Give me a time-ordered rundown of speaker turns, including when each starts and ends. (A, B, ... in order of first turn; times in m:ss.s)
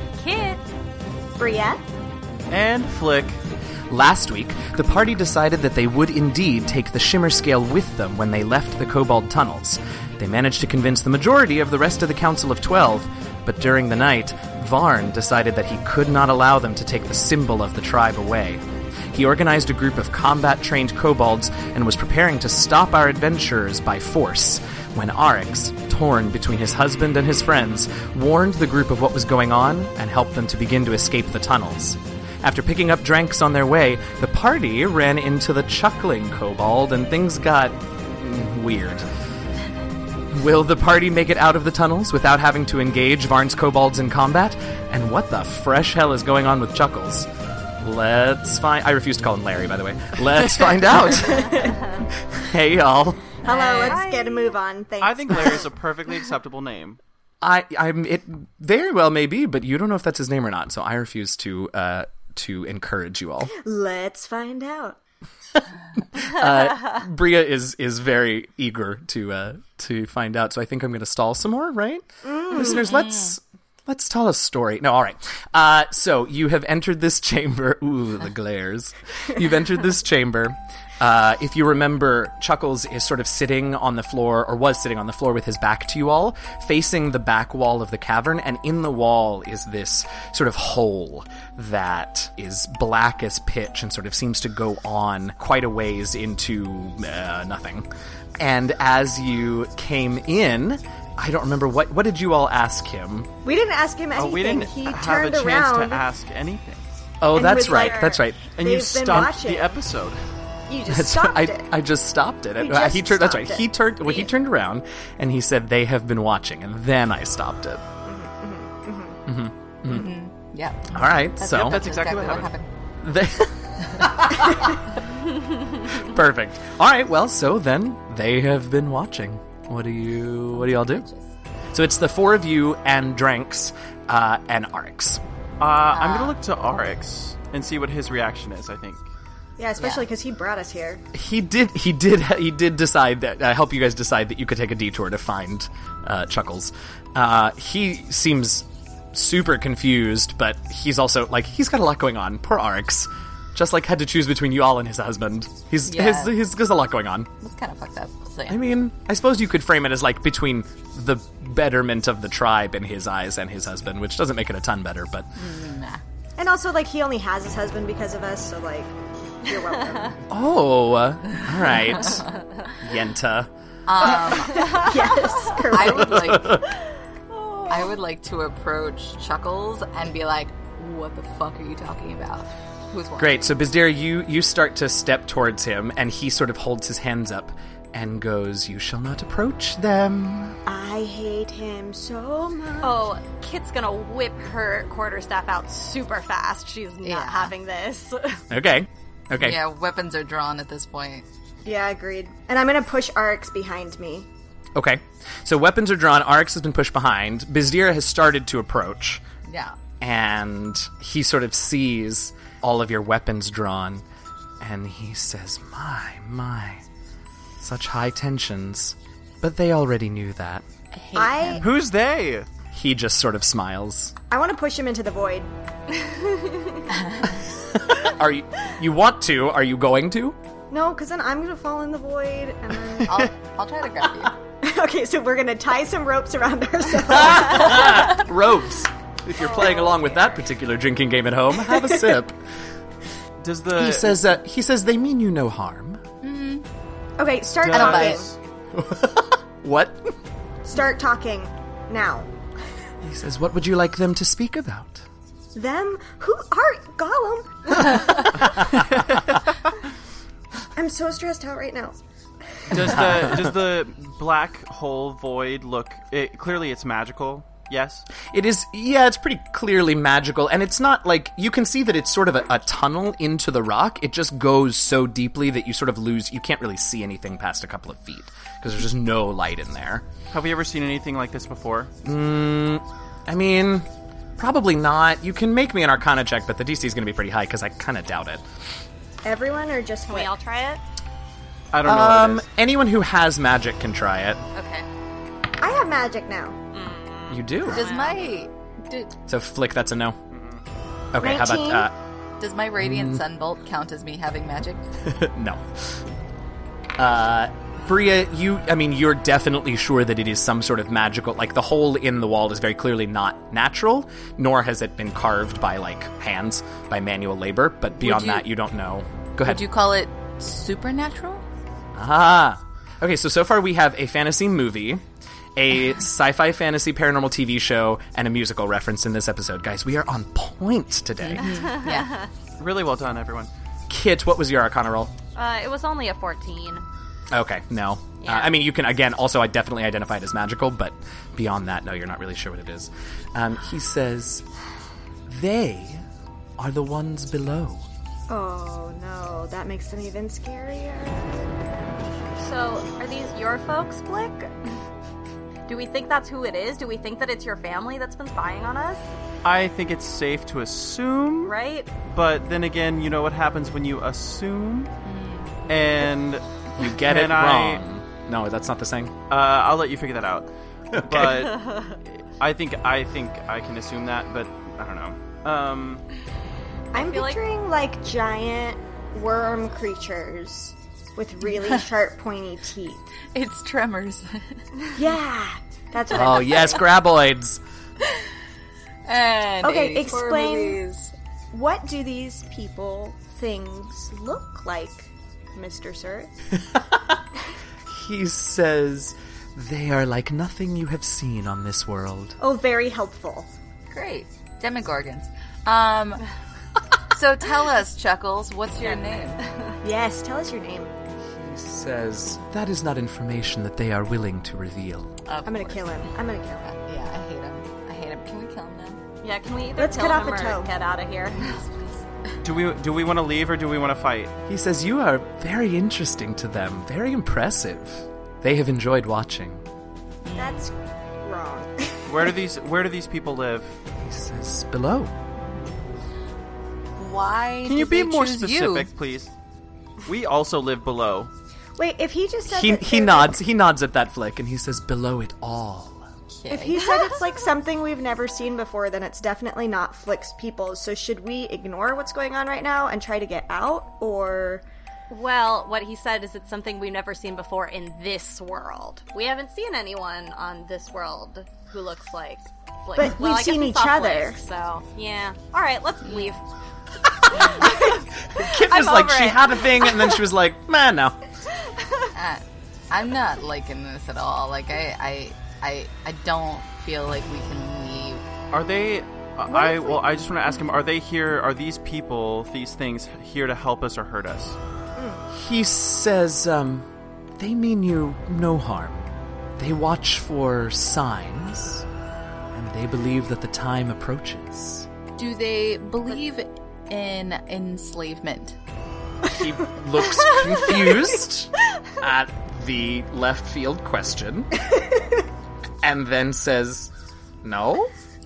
0:00.2-0:00.6 A
0:01.4-0:01.8 B
0:02.5-0:03.4 C
0:03.9-0:39.1 D
0:40.3-0:47.3 D
0:47.8-0:53.3 D
0:51.3-0:51.7 B
0:51.5-0:52.0 A
0:53.4-0:55.7 B
0:53.4-0:54.5 A
0:55.0-0:57.0 C
0:57.4-1:03.5 D
1:03.5-1:05.0 B
1:05.5-1:37.9 D
1:12.2-1:12.9 B
1:12.6-1:13.3 E
1:38.4-1:43.3 D
1:43.4-1:46.0 B
1:44.1-1:47.1 C
1:47.2-1:48.5 D
1:47.3-1:49.8 B
1:47.5-1:48.2 A
1:48.5-1:50.2 C
1:50.7-1:51.7 B
1:50.9-1:57.8 D
1:52.6-1:53.8 B
1:58.0-1:59.2 B
1:59.2-2:00.1 D
1:59.9-2:02.7 E
2:00.9-2:01.8 D
2:01.4-2:02.5 C
2:03.0-2:04.7 D
2:05.8-2:11.0 D
2:10.5-2:11.3 E
2:11.7-2:15.2 D
2:15.6-2:19.1 C
2:15.9-2:16.4 E
2:19.6-2:21.0 B
2:19.8-2:20.1 E
2:21.1-2:37.3 D
2:35.8-2:36.4 E
2:37.4-2:38.6 E
2:38.5-2:45.3 D
2:45.4-2:46.0 E
2:46.4-2:50.2 B
2:50.3-2:52.2 D
2:52.8-2:53.5 D
2:53.9-2:54.9 E
2:54.0-2:56.4 B
2:54.4-2:55.0 A
2:55.5-2:56.6 E
2:55.8-2:56.7 D
2:57.3-2:57.8 A
2:57.7-3:03.6 E
3:03.2-3:10.6 D
3:10.6-3:13.1 B
3:12.8-3:18.4 A
3:17.0-3:17.5 E
3:18.5-3:19.6 D
3:19.4-3:21.2 E
3:21.6-3:24.3 B
3:24.8-3:29.2 D
3:29.4-3:29.8 E
3:30.0-3:34.0 D
3:34.6-3:36.8 D
3:37.6-3:40.6 D
3:40.9-3:41.6 E
3:41.1-3:41.7 B
3:41.6-3:42.5 C
3:42.7-3:44.1 D
3:44.3-3:45.5 B
3:47.7-3:50.4 D
3:50.7-3:53.3 B
3:53.0-3:54.4 E
3:54.6-3:58.2 B
3:57.0-4:02.4 D
4:01.7-4:02.1 B
4:03.4-4:04.2 C
4:03.7-4:06.0 D
4:06.2-4:06.6 E
4:07.2-4:08.3 B
4:07.6-4:08.3 C
4:07.7-4:08.2 E
4:08.7-4:10.1 D
4:10.6-4:12.3 B
4:13.0-4:15.0 D
4:15.5-4:18.6 B
4:18.4-4:19.0 D
4:20.7-4:22.0 B
4:22.5-4:23.2 B
4:22.7-4:28.0 C
4:22.8-4:23.5 D
4:28.2-4:40.0 D
4:40.3-4:41.9 C
4:42.0-4:48.4 D
4:49.2-4:50.3 B
4:50.1-4:50.8 A
4:51.7-4:52.4 C
4:51.8-4:54.4 D
4:54.5-4:54.8 A
4:55.6-4:56.6 B
4:56.7-4:58.3 A
4:57.3-4:57.8 D
4:57.6-4:59.1 E
4:59.3-5:00.2 D
5:00.3-5:00.6 C
5:01.1-5:01.9 D
5:01.2-5:01.9 B
5:02.4-5:04.8 E
5:02.8-5:03.2 D
5:05.0-5:06.0 D
5:07.0-5:19.6 D
5:17.9-5:18.5 E
5:19.4-5:21.4 E
5:22.0-5:25.0 D
5:25.6-5:31.6 D
5:31.2-5:32.1 E
5:31.6-5:32.3 A
5:32.6-5:33.5 C
5:33.9-5:35.1 D
5:35.3-5:36.8 A
5:37.3-5:44.4 D
5:38.2-5:38.5 A
5:45.3-5:46.0 D
5:46.6-5:47.8 D
5:48.3-5:51.9 B
5:52.4-5:54.6 A
5:55.7-5:59.0 A
5:59.4-6:04.9 C
6:01.4-6:01.9 A
6:05.0-6:05.6 E
6:05.7-6:07.8 C
6:06.8-6:09.1 D
6:09.3-6:16.0 C
6:10.9-6:11.5 D
6:11.6-6:11.9 A
6:16.9-6:17.4 A
6:16.9-6:23.0 B
6:21.5-6:21.8 E
6:23.3-6:24.5 E
6:24.9-6:26.8 B
6:26.1-6:27.6 D
6:29.1-6:31.1 E
6:29.6-6:30.8 B
6:31.5-6:36.3 B
6:36.6-6:37.2 D
6:37.8-6:42.4 D
6:42.4-6:43.5 B
6:43.9-6:46.2 E
6:47.1-6:49.4 E
6:48.8-6:49.8 A
6:49.8-6:50.9 B
6:51.3-6:55.1 D
6:55.3-6:56.1 E
6:55.4-6:56.7 B
6:56.6-6:59.0 E
6:59.2-7:01.7 A
6:59.8-7:00.7 B
7:01.6-7:02.0 E
7:02.4-7:04.3 C
7:04.5-7:09.6 D
7:10.2-7:10.7 E
7:10.4-7:12.0 B
7:12.1-7:13.8 C
7:14.0-7:15.1 D
7:15.4-7:15.8 E
7:17.0-7:18.9 E
7:17.6-7:19.3 C
7:20.0-7:21.3 C
7:21.8-7:23.3 B
7:22.5-7:26.0 D
7:26.3-7:26.8 E
7:26.5-7:34.6 B
7:26.8-7:27.1 A
7:35.1-7:46.4 A
7:43.0-7:44.4 B
7:46.0-7:46.3 E
7:47.3-7:50.2 A
7:47.3-7:47.7 E
7:48.3-7:51.2 D
7:52.1-7:58.2 E
7:58.5-8:04.6 C
8:05.0-8:05.2 B
8:05.3-8:06.8 D
8:07.4-8:11.8 D
8:12.5-8:14.9 D
8:15.2-8:18.6 E
8:19.2-8:24.6 D
8:25.8-8:26.9 D
8:27.4-8:27.9 D